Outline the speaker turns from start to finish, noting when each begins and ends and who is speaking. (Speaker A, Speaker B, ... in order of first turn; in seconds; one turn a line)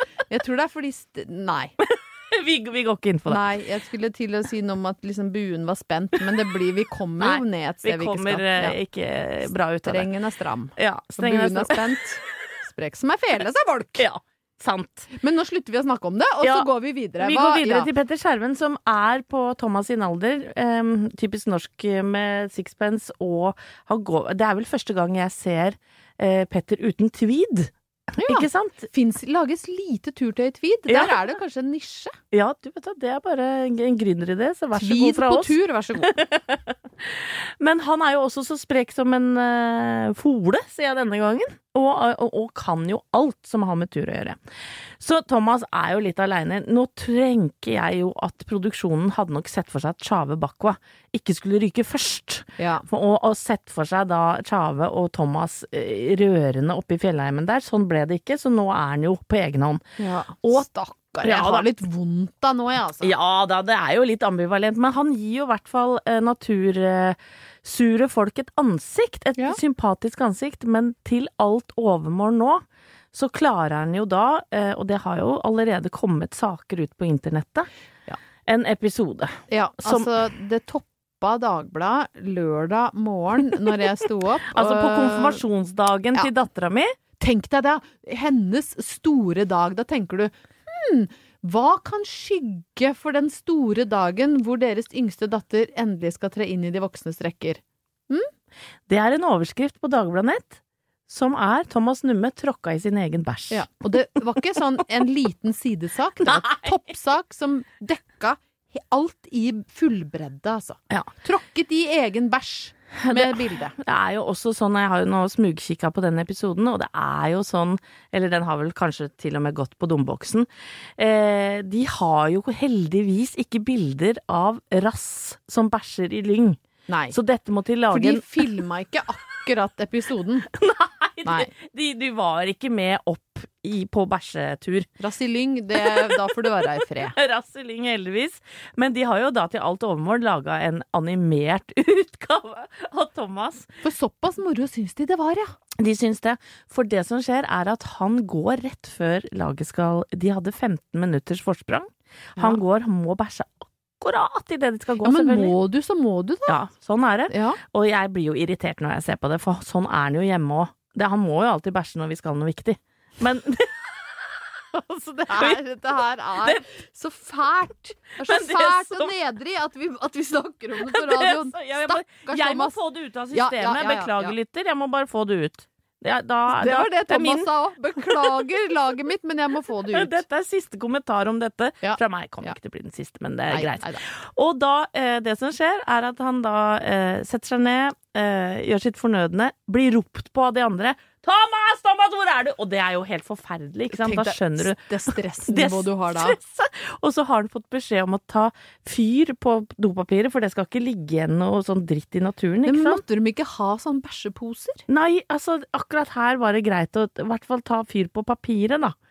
Speaker A: 0.3-1.7
Speaker B: 1.8-3.4
Speaker A: 3.3-8.8
Speaker B: 7.2-10.1
Speaker A: 9.8-14.1
Speaker B: 10.8-11.9
Speaker B: 14.0-15.1
Speaker A: 15.1-17.9
Speaker B: 16.4-28.9
Speaker A: 28.2-32.2
Speaker B: 30.9-31.2
Speaker B: 32.3-44.4
Speaker A: 34.8-36.2
Speaker B: 45.0-59.8
Speaker A: 52.6-52.9
Speaker A: 60.0-63.1
Speaker B: 61.2-61.7
Speaker B: 63.0-77.7
Speaker B: 78.5-80.1
Speaker A: 79.5-85.4
Speaker B: 84.5-87.0
Speaker A: 87.2-98.3
Speaker B: 98.9-103.7
Speaker A: 103.5-113.7
Speaker B: 106.2-106.8
Speaker B: 113.0-126.6
Speaker A: 126.9-127.2
Speaker B: 127.1-128.5
Speaker A: 127.9-130.5
Speaker B: 130.5-134.9
Speaker A: 131.2-131.5
Speaker A: 135.0-137.2
Speaker B: 135.8-143.7
Speaker A: 143.8-145.5
Speaker B: 145.8-155.6
Speaker A: 155.0-156.6
Speaker B: 156.5-163.9
Speaker A: 157.3-157.6
Speaker A: 164.8-172.8
Speaker B: 165.3-165.6
Speaker B: 168.2-169.1
Speaker B: 170.8-178.4
Speaker A: 173.3-174.3
Speaker A: 176.5-180.2
Speaker B: 179.9-203.0
Speaker A: 181.8-182.6
Speaker A: 183.5-184.0
Speaker A: 193.9-196.4
Speaker A: 202.7-204.8
Speaker B: 204.9-209.0